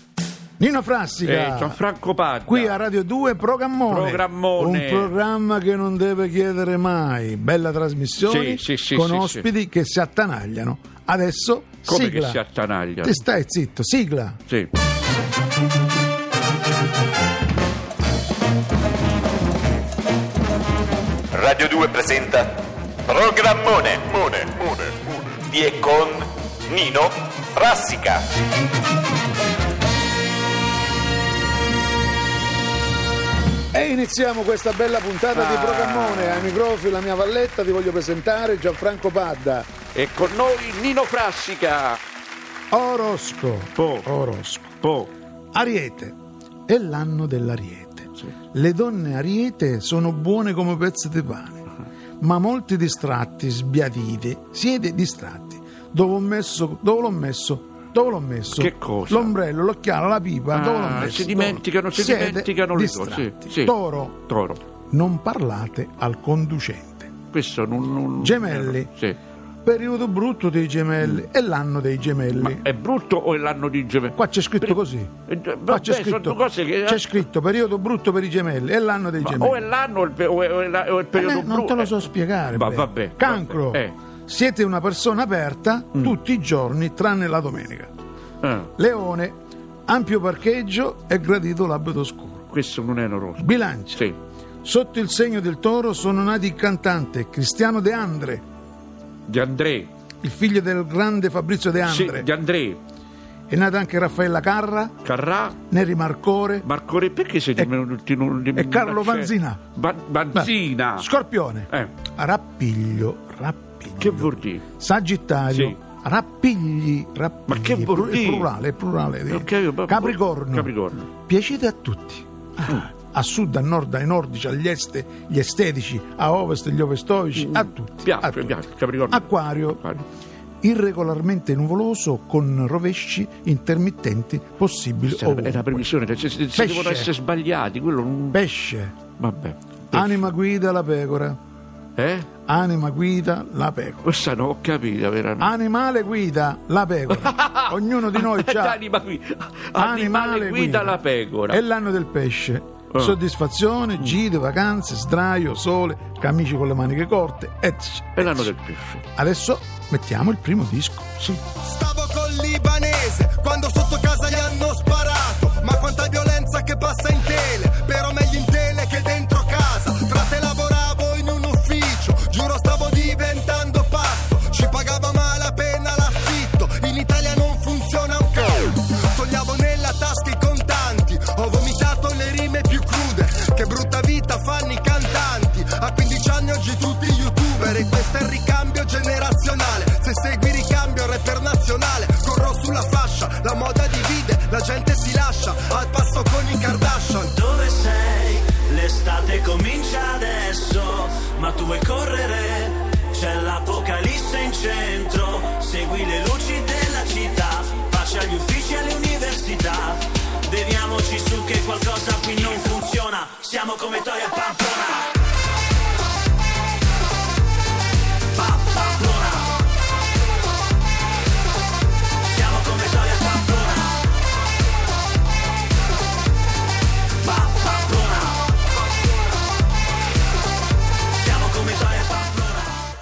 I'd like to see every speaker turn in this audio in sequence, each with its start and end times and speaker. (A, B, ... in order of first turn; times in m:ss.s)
0:00.6-0:01.8 A
0:01.2-0:02.8 B
0:02.5-0:12.4 A
0:03.9-0:05.1 B
0:08.2-0:09.5 B
0:11.9-0:13.2 B
0:13.0-0:14.4 A
0:21.3-0:28.2 C
0:33.7-0:39.7 A
0:35.3-0:36.5 B
0:39.9-0:42.0 B
0:42.7-0:44.8 A
0:43.8-0:44.1 B
0:44.8-0:45.1 B
0:45.5-0:51.7 A
0:52.2-1:04.3 A
0:58.6-0:59.4 B
1:00.5-1:03.8 B
1:04.3-1:04.6 B
1:04.9-1:07.1 A
1:07.3-1:09.2 B
1:08.2-1:08.9 A
1:09.6-1:12.7 A
1:12.3-1:14.8 B
1:14.2-1:15.1 A
1:15.3-1:17.1 B
1:15.7-1:19.6 A
1:19.2-1:21.9 B
1:21.1-1:27.9 A
1:22.5-1:23.9 B
1:28.4-1:28.7 B
1:28.8-1:29.4 A
1:29.9-1:32.5 A
1:32.5-1:34.2 B
1:33.4-1:34.1 A
1:34.6-1:38.4 A
1:39.3-1:39.9 B
1:40.2-1:42.3 A
1:41.8-1:42.8 B
1:43.5-1:45.0 A
1:45.0-1:45.6 B
1:45.7-1:46.7 A
1:46.6-1:51.1 B
1:48.5-1:49.7 A
1:50.3-2:10.0 A
1:54.0-1:54.6 B
1:55.5-1:55.8 B
1:57.5-1:58.5 B
1:59.3-2:01.1 B
2:07.4-2:10.0 B
2:10.6-2:15.9 A
2:15.2-2:18.4 B
2:16.6-2:17.1 A
2:18.3-2:19.0 A
2:19.2-2:20.3 B
2:19.9-2:21.4 A
2:22.0-2:22.3 B
2:22.5-2:24.1 A
2:24.0-2:25.5 B
2:25.4-2:28.8 A
2:27.1-2:31.6 B
2:29.8-2:38.5 A
2:32.9-2:33.2 B
2:38.2-2:39.0 B
2:39.2-2:41.1 A
2:41.6-3:17.3 D
3:17.3-3:35.2 E
3:38.3-3:39.6 E
3:42.2-3:44.0 E
3:47.2-3:48.4 E
3:51.2-3:52.8 E